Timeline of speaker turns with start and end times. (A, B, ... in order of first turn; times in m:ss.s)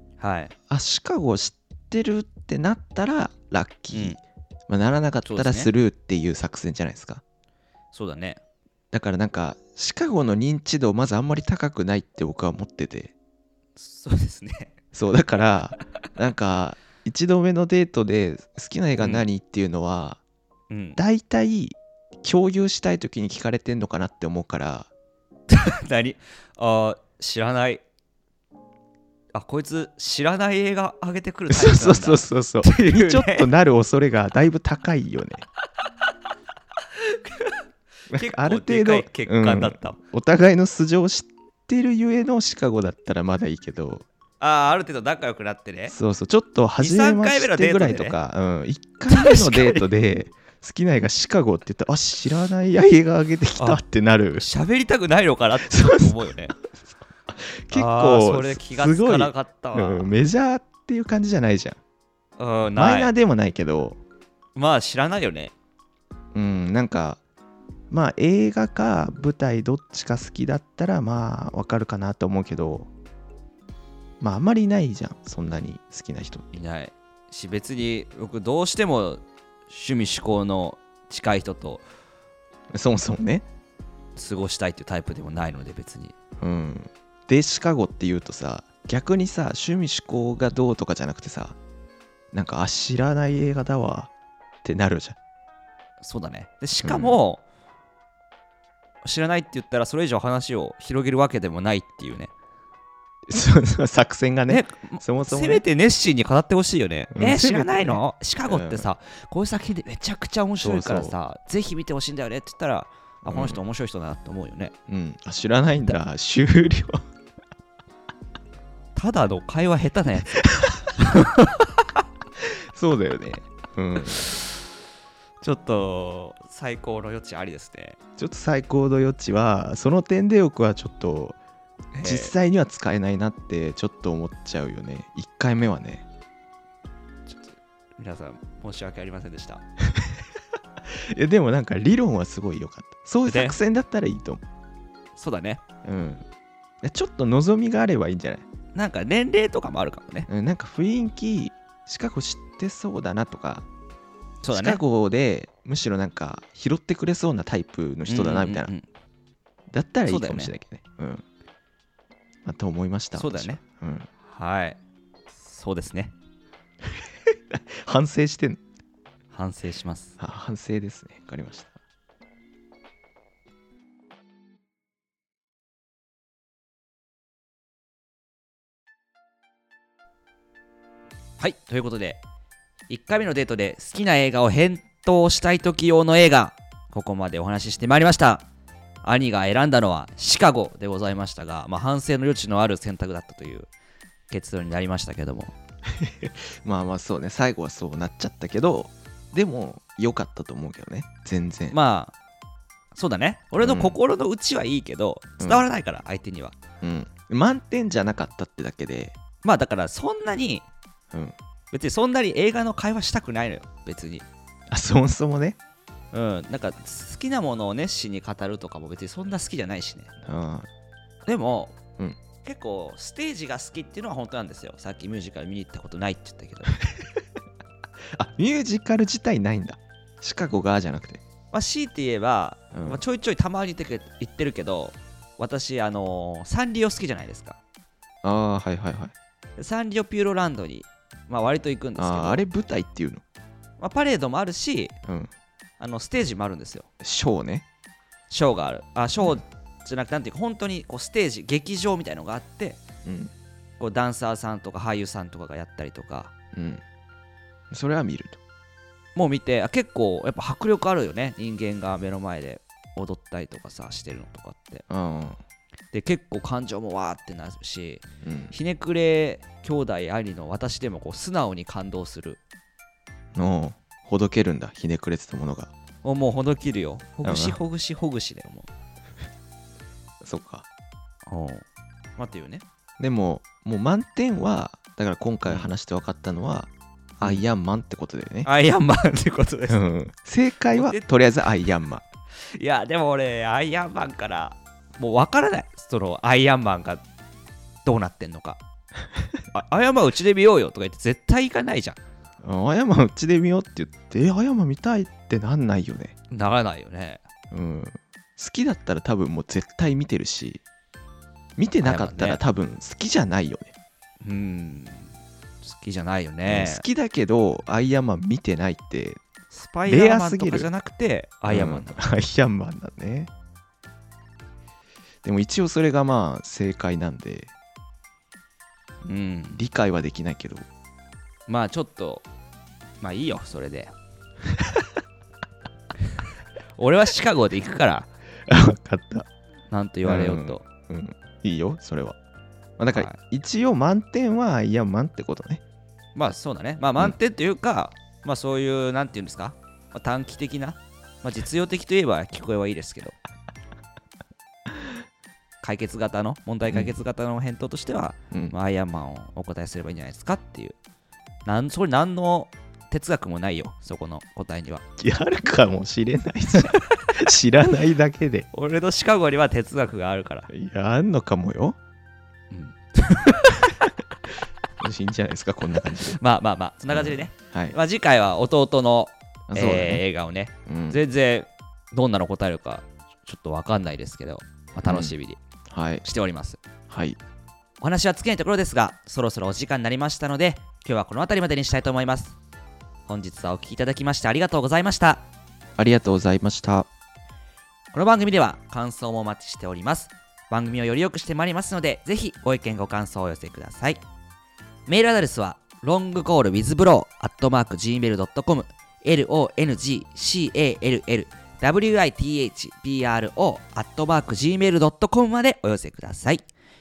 0:00.2-0:00.5 A
0:00.7-0:07.2 B
0:03.9-0:04.2 A
0:05.2-0:05.7 A
0:07.9-0:08.4 A
0:08.9-0:13.1 B
0:13.8-0:14.7 A
0:14.9-0:20.2 B
0:19.0-0:19.2 A
0:20.7-0:21.0 A
0:21.0-0:24.9 B
0:25.5-0:27.8 A
0:29.3-0:33.5 A
0:31.5-0:35.4 B
0:37.0-0:40.0 A
0:38.1-0:44.0 B
0:44.4-0:45.9 A
0:45.9-0:54.4 B
0:46.8-0:48.2 A
0:49.1-0:49.9 A
0:54.4-0:56.6 A
0:55.6-0:56.2 B
0:57.3-1:01.8 B
0:57.7-1:00.1 A
1:02.4-1:03.1 A
1:02.8-1:04.0 B
1:04.6-1:05.5 A
1:06.3-1:07.2 B
1:07.9-1:12.9 B
1:14.2-1:16.4 B
1:16.5-1:21.8 A
1:22.7-1:23.4 B
1:24.2-1:26.1 A
1:26.4-1:31.6 B
1:32.3-1:34.1 B
1:34.6-1:35.2 B
1:36.0-1:37.4 A
1:36.8-1:37.2 B
1:39.0-1:42.3 A
1:43.3-1:45.6 B
1:44.5-1:54.7 A
1:47.1-1:48.9 B
1:50.6-1:51.1 B
1:53.2-1:53.6 B
1:54.9-1:57.0 B
1:58.9-2:00.4 A
2:00.5-2:00.9 B
2:01.0-2:01.8 A
2:02.4-2:04.4 B
2:05.4-2:08.0 A
2:08.2-2:11.4 B
2:11.9-2:12.3 A
2:12.0-2:16.0 B
2:17.3-2:19.6 A
2:20.9-2:24.4 B
2:23.3-2:23.6 A
2:25.2-2:25.6 A
2:25.8-2:26.2 B
2:26.8-2:28.4 B
2:28.7-2:30.3 A
2:30.3-2:33.6 B
2:34.4-2:34.8 A
2:34.5-2:38.7 B
2:38.1-2:38.9 A
2:39.7-2:41.2 B
2:40.0-2:40.5 A
2:42.4-2:44.1 B
2:43.1-2:43.6 A
2:44.3-2:44.8 A
2:45.4-2:46.1 A
2:47.5-2:48.6 B
2:49.3-2:50.2 A
2:50.2-2:51.7 B
3:01.4-3:02.2 A
3:02.9-3:08.4 A
3:09.0-3:13.7 A
3:14.3-3:15.5 A
3:15.9-3:21.8 B
3:21.7-3:22.1 A
3:22.9-3:26.6 A
3:23.6-3:24.0 B
3:25.4-3:25.6 B
3:26.8-3:29.1 B
3:29.4-3:30.7 A
3:31.7-3:34.2 A
3:34.7-3:35.6 B
3:36.1-3:40.1 A
3:40.2-3:40.7 B
3:41.2-3:41.8 A
3:42.4-3:46.8 A
3:48.1-3:51.2 B
3:51.5-3:57.6 A
3:52.7-3:53.0 B
3:58.2-3:59.1 B
3:59.6-4:02.4 A
4:02.0-4:03.2 B
4:03.8-4:04.9 A
4:05.0-4:05.3 B
4:05.8-4:06.9 A
4:07.0-4:07.6 B
4:08.3-4:12.8 A
4:13.0-4:13.3 B
4:13.8-4:16.3 A
4:16.5-4:16.8 B
4:17.7-4:18.4 B
4:19.1-4:24.8 A
4:24.9-4:25.4 B
4:25.9-4:32.4 A
4:28.2-4:28.5 B
4:33.3-4:35.7 B
4:36.0-4:38.7 A
4:37.2-4:37.6 B
4:40.2-4:40.6 B
4:41.3-4:41.6 A
4:42.2-4:42.6 A
4:43.0-4:48.5 B
4:48.4-4:49.8 A
4:49.7-4:52.0 B
4:50.7-4:51.0 A
4:52.6-4:57.0 A
4:57.8-4:58.6 A
4:59.5-5:02.0 A
5:02.4-5:06.1 B
5:06.3-5:07.2 A
5:07.5-5:10.6 B
5:11.6-5:13.7 B
5:11.8-5:12.4 A
5:14.2-5:15.1 A
5:15.6-5:16.8 A
5:16.5-5:19.2 B
5:19.5-5:22.0 A
5:19.9-5:20.7 B
5:21.5-5:23.3 B
5:25.2-5:27.5 B
5:29.0-5:29.6 A
5:29.5-5:30.6 B
5:31.5-5:32.2 A
5:33.0-5:33.9 A
5:36.8-5:38.1 A
5:38.5-5:39.3 B
5:39.7-5:40.6 A
5:40.0-5:42.2 B
5:42.8-5:45.6 B
5:42.9-5:43.2 A
5:46.1-5:53.2 A
5:55.6-6:00.8 A
5:56.7-5:56.9 B
6:01.4-6:04.8 A
6:05.0-6:08.5 B
6:06.6-6:06.9 A
6:08.5-6:10.5 A
6:10.5-6:11.8 B
6:12.5-6:13.8 A
6:14.8-6:16.2 B
6:15.9-6:25.4 A
6:16.9-6:17.8 B
6:19.5-6:20.0 B
6:20.6-6:21.0 B
6:24.8-6:25.1 B
6:25.7-6:26.0 B
6:26.0-6:26.6 A
6:26.9-6:27.2 B
6:27.8-6:32.4 A
6:33.1-6:35.2 A
6:35.8-6:36.9 B
6:37.9-6:44.0 A
6:44.9-6:56.4 A